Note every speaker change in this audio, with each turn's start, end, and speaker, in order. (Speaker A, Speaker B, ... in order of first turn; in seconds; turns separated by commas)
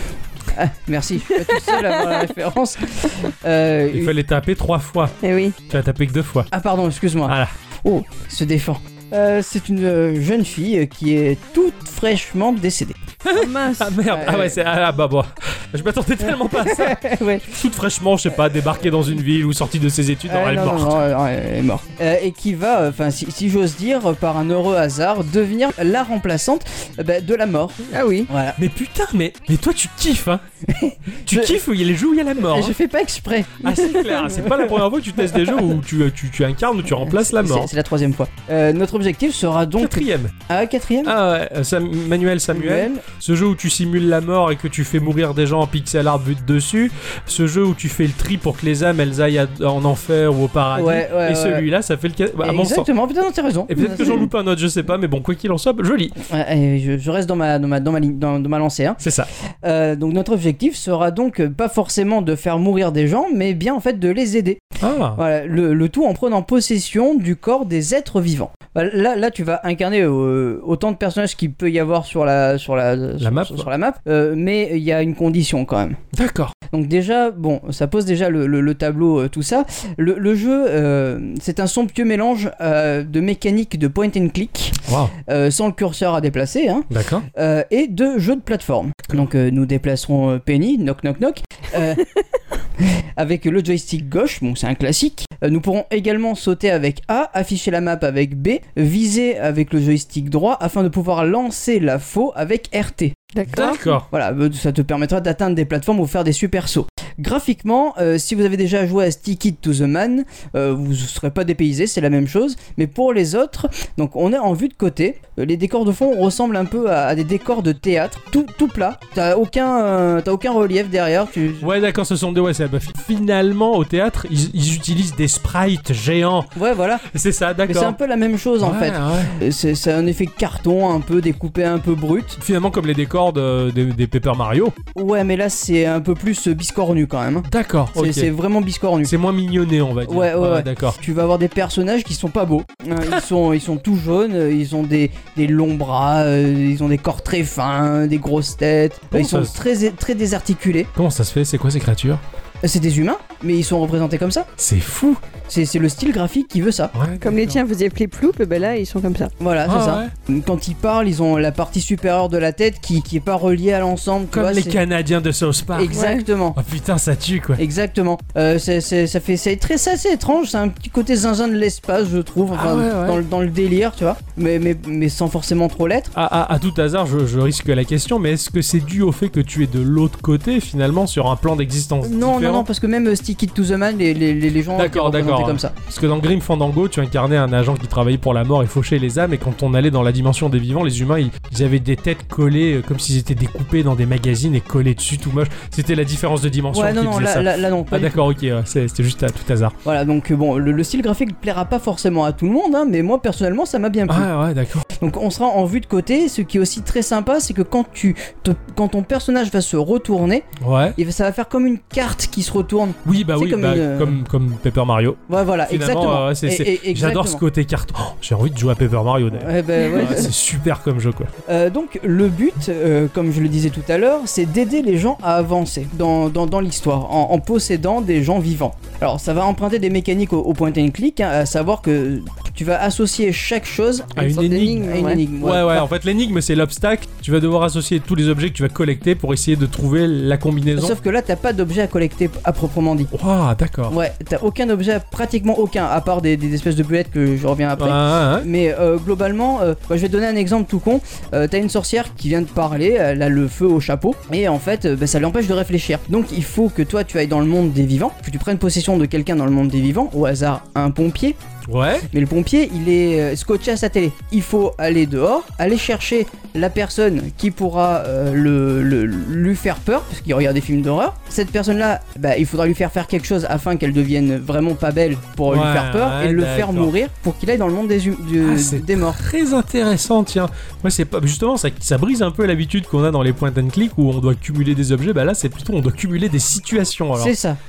Speaker A: 0.5-4.1, Speaker B: 1.3-2.3, Speaker C: 3.9-5.1, Speaker B: 5.2-5.6, Speaker C: 5.7-6.5, Speaker A: 6.5-13.0, Speaker C: 7.3-7.5, Speaker C: 13.2-21.0, Speaker B: 13.3-13.9, Speaker A: 14.1-14.6, Speaker A: 16.3-17.4, Speaker A: 20.3-28.6, Speaker B: 27.9-28.3, Speaker C: 28.6-30.4, Speaker A: 30.7-31.6, Speaker C: 31.2-32.8, Speaker A: 32.4-33.8, Speaker C: 33.6-37.7, Speaker B: 33.8-34.6, Speaker A: 37.0-41.1, Speaker C: 39.8-40.3, Speaker C: 41.0-52.9, Speaker A: 42.5-43.0, Speaker A: 50.7-51.7, Speaker A: 52.4-54.3, Speaker C: 53.7-56.2, Speaker A: 56.2-59.0, Speaker C: 59.0-59.3, Speaker A: 59.6-64.6, Speaker C: 64.8-65.2, Speaker A: 65.2-76.0, Speaker C: 73.2-73.7, Speaker C: 76.1-76.5, Speaker A: 76.7-92.1, Speaker C: 84.9-85.1, Speaker C: 86.9-87.3, Speaker A: 92.8-121.7, Speaker B: 103.3-103.8, Speaker C: 103.5-104.1, Speaker C: 121.6-128.0, Speaker A: 126.5-127.0, Speaker A: 127.7-132.4, Speaker C: 128.6-129.4, Speaker C: 132.4-134.8, Speaker A: 134.9-139.1, Speaker C: 137.4-138.3, Speaker C: 139.0-141.0, Speaker A: 140.1-150.9, Speaker C: 149.1-149.5, Speaker C: 150.9-152.2, Speaker A: 152.6-154.5, Speaker C: 154.6-155.2, Speaker A: 155.5-156.9, Speaker C: 156.9-157.6, Speaker B: 157.2-159.3, Speaker A: 159.4-164.8, Speaker C: 159.7-160.1, Speaker C: 164.3-167.6, Speaker A: 165.7-166.6, Speaker B: 165.9-166.3, Speaker A: 167.6-176.1, Speaker C: 172.5-173.2, Speaker C: 176.2-182.7, Speaker A: 182.0-185.7, Speaker C: 184.7-199.8, Speaker A: 196.7-198.2, Speaker A: 199.8-204.3, Speaker C: 204.1-204.9, Speaker A: 205.0-210.4, Speaker C: 210.6-211.0, Speaker A: 211.0-214.2, Speaker C: 213.1-221.3, Speaker A: 215.3-217.4, Speaker A: 219.3-220.3, Speaker B: 219.9-220.2, Speaker A: 221.5-235.9, Speaker C: 234.2-241.0, Speaker B: 234.2-235.2, Speaker A: 240.8-243.1, Speaker C: 243.1-243.9, Speaker A: 243.9-261.4, Speaker C: 247.8-248.5, Speaker C: 261.7-262.1, Speaker A: 262.1-279.2, Speaker C: 275.5-276.9, Speaker C: 278.4-287.3, Speaker A: 287.2-287.6